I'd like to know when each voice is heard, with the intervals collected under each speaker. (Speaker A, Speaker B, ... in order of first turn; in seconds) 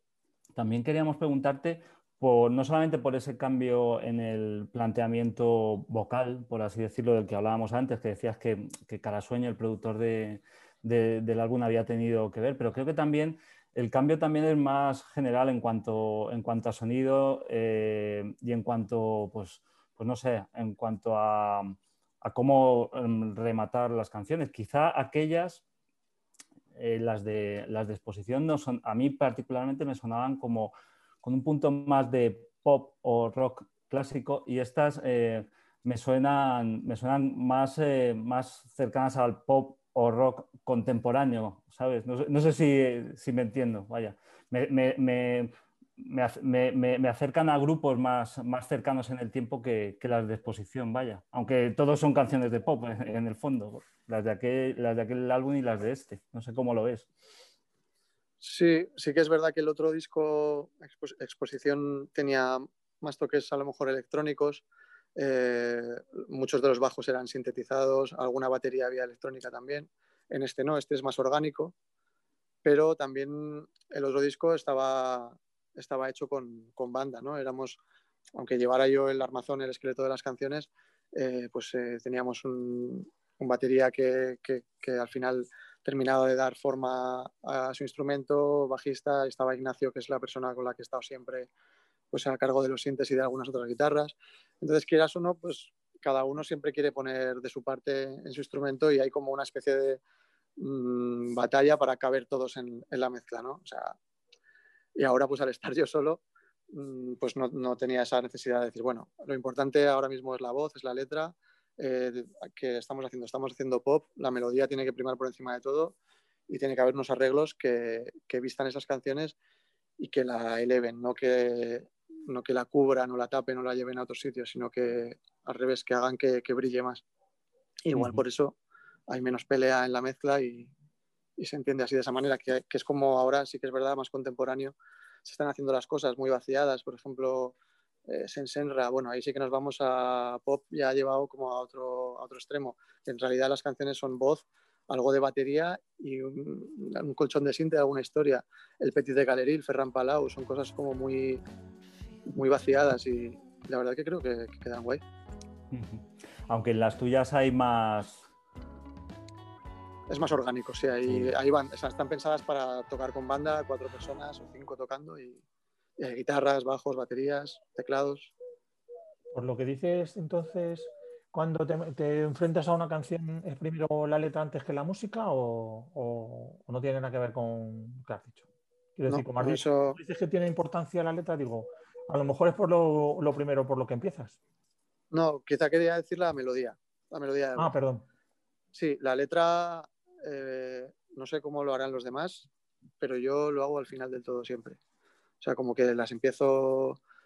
Speaker A: 0.5-25.6, 26.7-57.1, 127.9-128.2, 155.7-158.3, 161.1-161.3
Speaker B: 58.4-64.6, 65.2-71.7, 72.6-77.8, 78.3-91.5, 92.1-100.0, 100.6-104.0, 105.0-116.0, 116.5-119.3, 120.0-127.0, 127.8-128.6, 129.1-130.7, 131.4-137.6, 138.1-151.4, 152.3-155.0, 160.1-165.4, 166.0-168.3, 179.1-180.0, 185.1-187.7, 188.7-192.5, 193.0-194.8, 195.4-197.0
Speaker C: 169.3-178.4, 178.9-184.4, 187.6-188.1